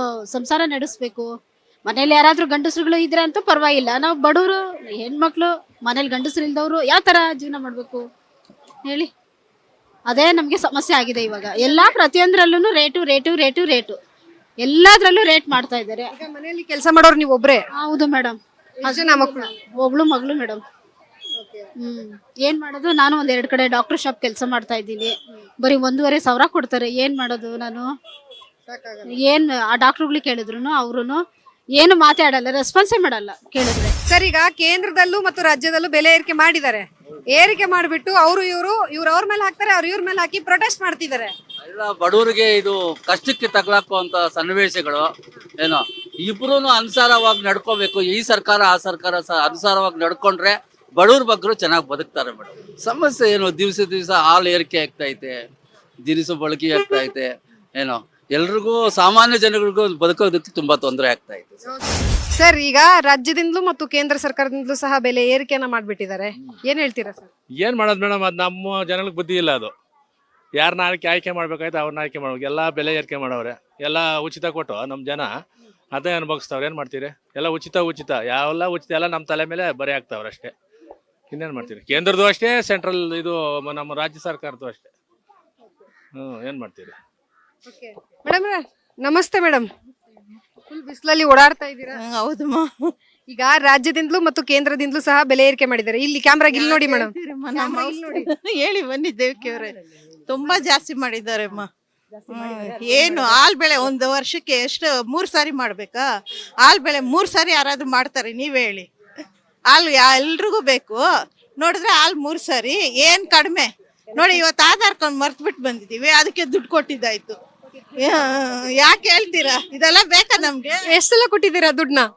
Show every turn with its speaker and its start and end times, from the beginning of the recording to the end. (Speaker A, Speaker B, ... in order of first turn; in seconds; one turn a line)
Speaker A: 0.3-1.3
Speaker A: 1.9-8.1
Speaker A: 10.1-14.0
Speaker A: 14.6-16.1
Speaker B: 16.1-17.6
Speaker A: 17.8-20.6
Speaker B: 18.8-19.5
Speaker B: 21.4-21.7
Speaker A: 21.8-27.9
Speaker B: 28.7-29.1
Speaker A: 29.2-31.2
Speaker A: 31.8-34.0
Speaker B: 34.1-41.3
Speaker C: 41.6-55.4
Speaker C: 56.0-61.6
Speaker B: 61.7-67.3
Speaker D: 67.6-69.7
Speaker D: 70.6-75.3
Speaker D: 75.9-80.5
Speaker D: 81.3-84.9
Speaker D: 86.2-87.0
Speaker B: 87.7-89.7
Speaker B: 90.7-92.0
Speaker E: 92.2-92.7
Speaker B: 93.3-98.3
Speaker E: 96.6-99.7
Speaker E: 100.3-101.7
Speaker E: 102.4-106.0
Speaker E: 106.7-108.8
Speaker E: 109.7-111.0
Speaker E: 111.6-113.7
Speaker E: 114.2-117.3
Speaker E: 118.8-120.7
Speaker B: 120.9-122.1